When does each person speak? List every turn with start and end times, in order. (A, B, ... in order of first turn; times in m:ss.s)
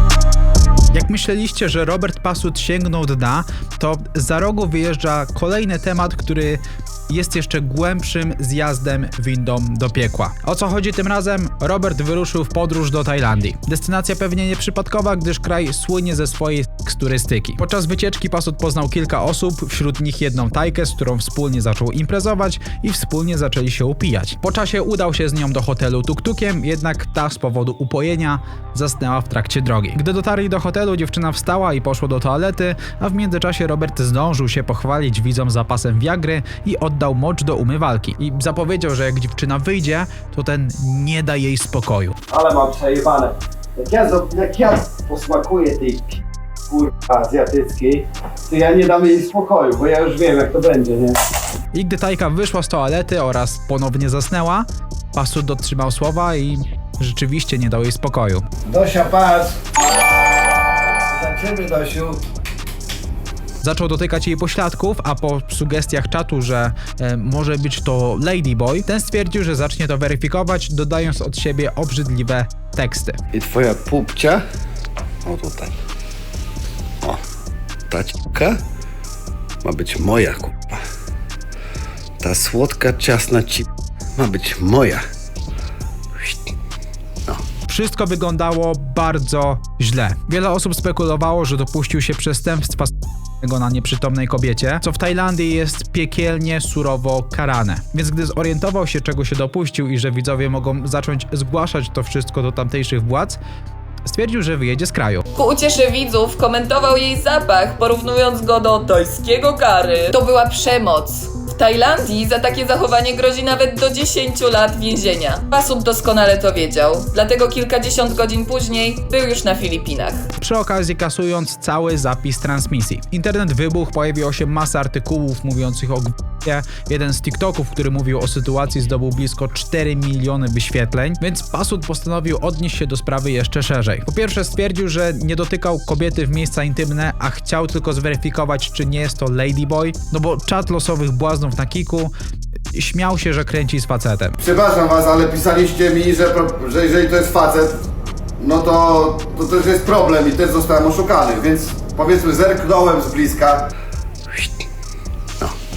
0:00.9-0:42.2 A
0:42.3-0:51.2 B
0:51.7-0:58.4 A
0:58.7-0:59.4 B
0:58.8-0:59.3 C
1:01.4-1:02.1 C
1:03.6-1:13.2 A
1:13.5-1:14.4 D
1:15.2-1:15.7 D
1:17.9-1:18.6 D
1:19.6-1:20.8 D
1:22.2-1:23.6 D
1:24.2-1:25.0 D
1:27.7-1:43.4 A
1:44.0-1:45.2 A
1:45.3-2:00.2 E
2:00.4-2:22.1 A
2:22.7-2:24.4 A
2:24.4-2:27.8 C
2:28.4-2:33.7 C